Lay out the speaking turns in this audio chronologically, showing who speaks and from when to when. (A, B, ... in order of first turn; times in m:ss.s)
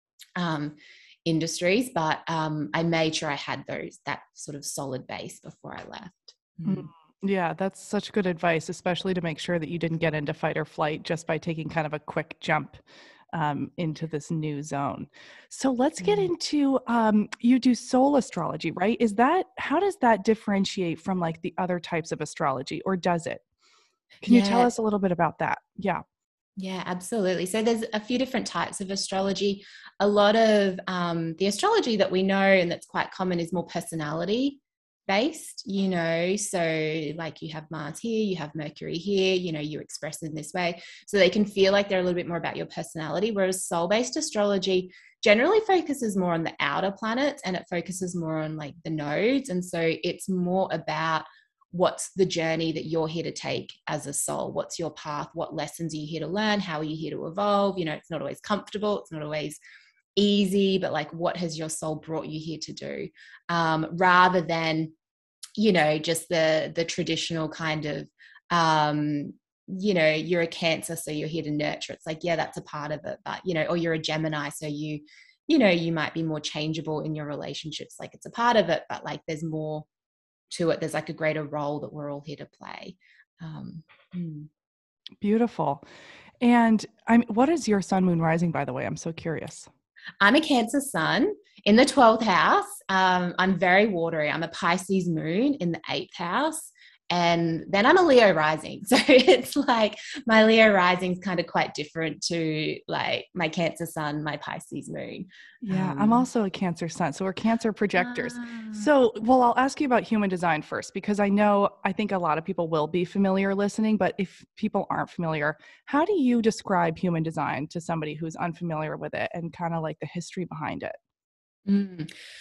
0:00.4-0:06.9 A
0:06.6-0:12.8 B
0:13.3-0:23.4 B
0:16.0-0:16.3 A
0:24.2-0:26.0 B
0:24.3-0:24.7 A
0:26.6-0:59.6 A
1:00.2-1:04.9 A
1:05.6-1:19.9 A
1:20.5-1:24.5 A
1:25.2-1:25.8 B
1:26.4-1:29.7 B
1:30.2-1:46.3 A
1:45.6-2:01.0 B
1:48.0-1:48.9 A
2:01.7-2:02.1 A